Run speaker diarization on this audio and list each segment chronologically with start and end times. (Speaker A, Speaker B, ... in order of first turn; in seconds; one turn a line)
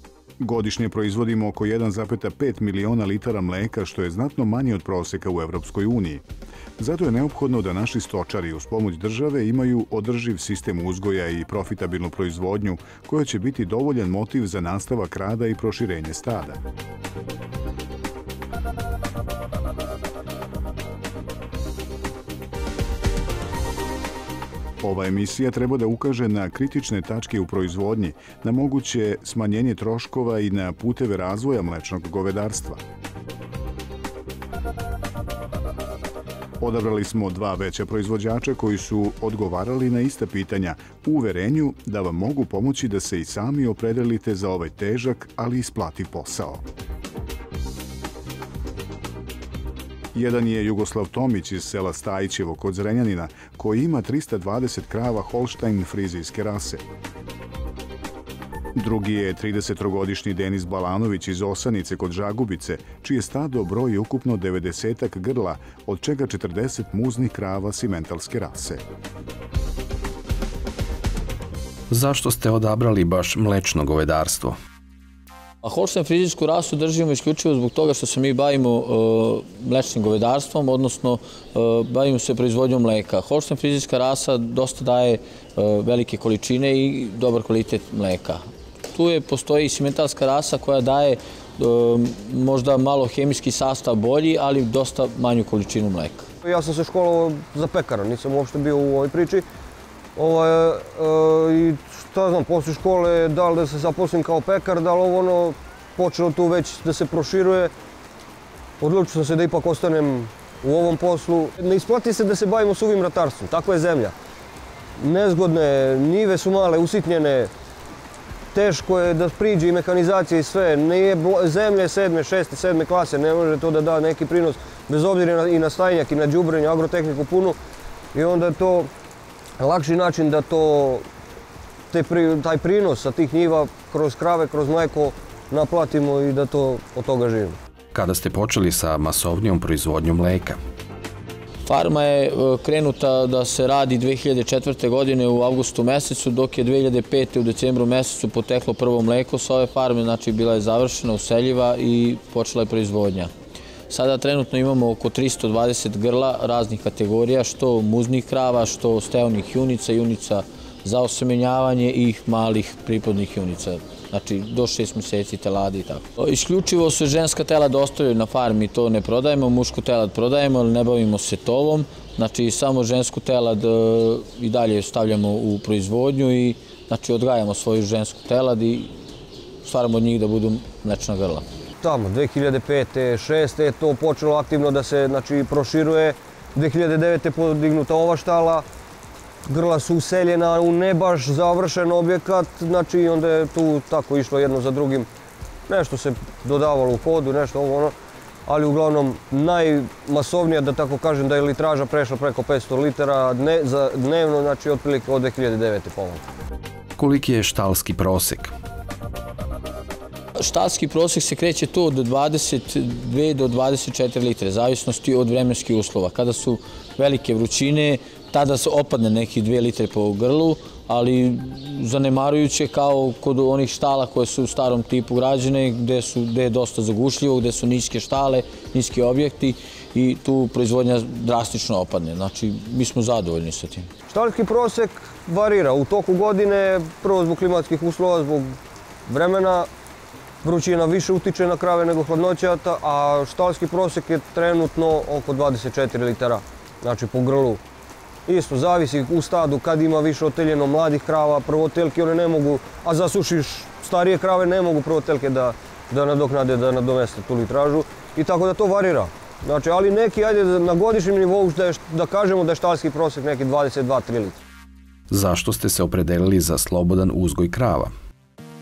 Speaker A: 0.4-6.2
Speaker A: 6.8-16.6
Speaker A: 24.8-32.8
Speaker A: 36.6-46.6
Speaker A: 50.1-56.8
Speaker A: 58.8-68.8
Speaker B: 71.9-74.6
Speaker C: 75.6-96.2
Speaker D: 96.4-99.4
Speaker D: 100.2-107.7
Speaker D: 108.8-114.1
Speaker D: 115.0-117.5
Speaker D: 118.5-127.6
Speaker D: 128.1-128.9
Speaker D: 129.6-131.0
Speaker D: 131.9-137.6
Speaker B: 137.9-140.6
Speaker C: 141.7-153.3
Speaker C: 153.9-178.9
Speaker C: 179.6-181.4
Speaker D: 181.8-188.7
Speaker D: 189.5-195.1
Speaker D: 195.7-197.9
Speaker D: 198.5-206.2
Speaker B: 207.0-208.5
Speaker C: 210.4-233.9
Speaker D: 234.1-238.6
Speaker D: 239.1-239.7
Speaker D: 240.4-247.6
Speaker D: 248.3-264.4
Speaker B: 265.1-267.9